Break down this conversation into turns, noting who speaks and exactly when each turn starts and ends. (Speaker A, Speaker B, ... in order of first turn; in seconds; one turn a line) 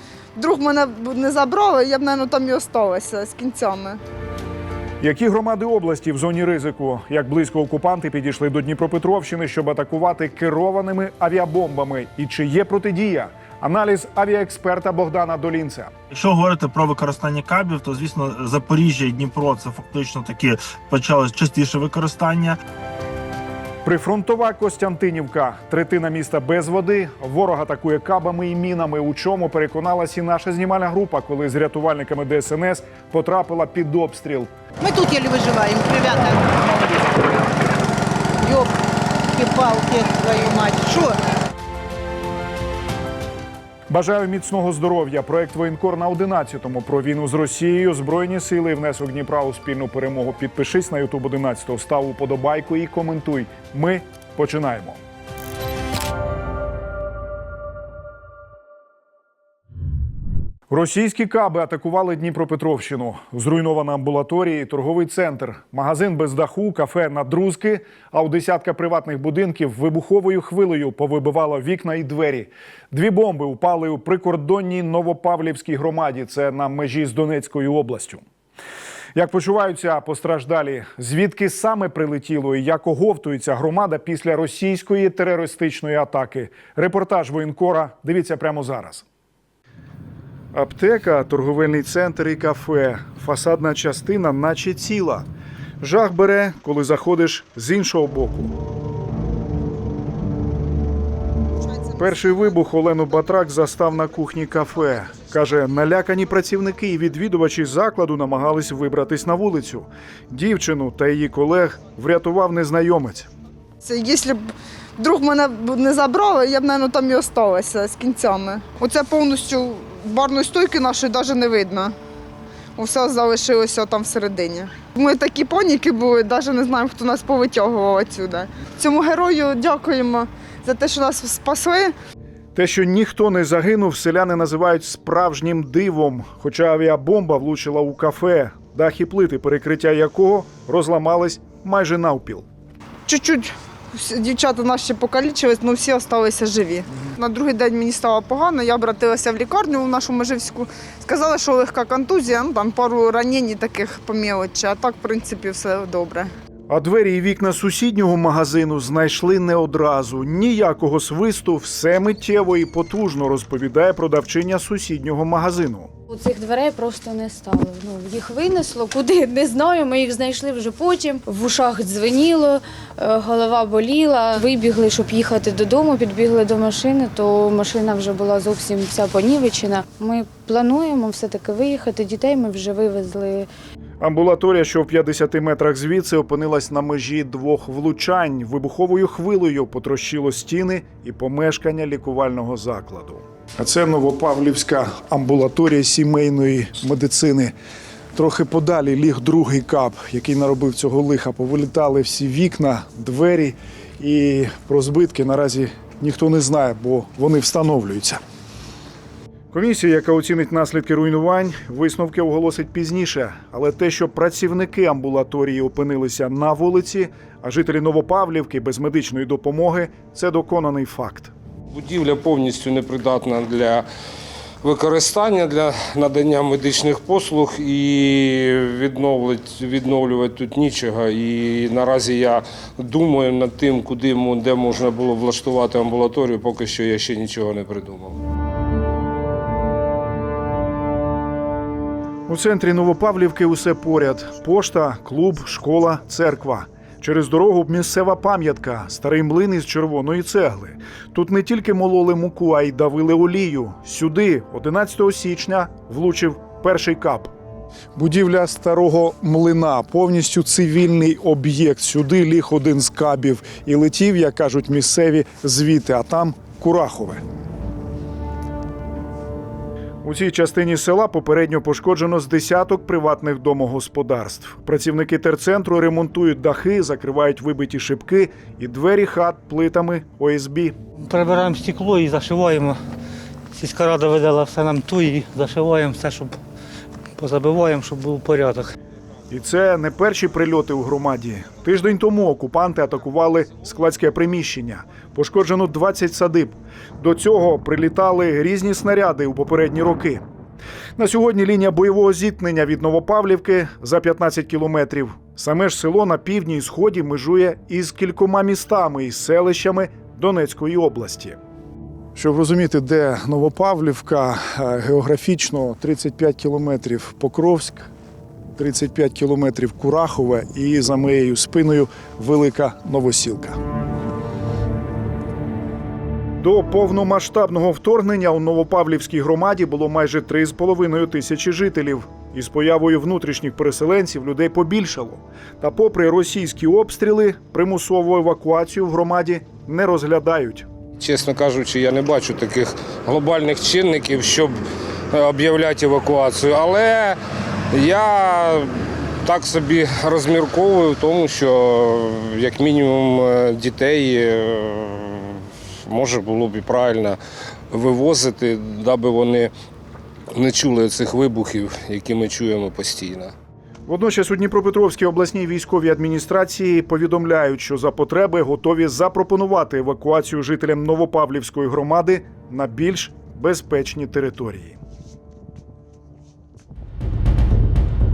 Speaker A: 0.4-4.0
Speaker B: 5.0-15.9
Speaker C: 16.1-22.6
Speaker B: 23.8-34.5
Speaker D: 34.8-37.5
Speaker D: 38.4-38.8
Speaker D: 39.3-41.2
Speaker B: 43.9-55.0
Speaker B: 60.7-78.2
Speaker B: 79.2-89.0
Speaker B: 90.5-95.3
Speaker B: 95.8-98.5
Speaker A: 101.6-105.2
Speaker B: 102.0-113.3
Speaker A: 113.8-121.9
Speaker A: 122.8-131.9
Speaker B: 132.6-142.5
Speaker A: 143.1-156.3
Speaker B: 156.7-165.9
Speaker E: 166.1-183.5
Speaker B: 184.0-197.5
Speaker B: 198.2-208.2
Speaker B: 209.5-221.3
Speaker F: 221.7-223.9
Speaker F: 224.6-238.2
Speaker B: 242.3-257.3
Speaker B: 258.0-267.2
Speaker B: 270.0-280.8
Speaker G: 281.0-282.8
Speaker G: 283.5-286.4
Speaker G: 287.2-288.7
Speaker B: 289.3-300.2
Speaker B: 301.0-311.4
Speaker B: 312.1-317.9
Speaker B: 318.6-323.6
Speaker B: 326.4-340.7
Speaker F: 341.0-344.5
Speaker F: 345.1-347.2
Speaker F: 347.7-357.2
Speaker F: 357.7-359.5
Speaker F: 360.3-363.3
Speaker B: 363.9-374.8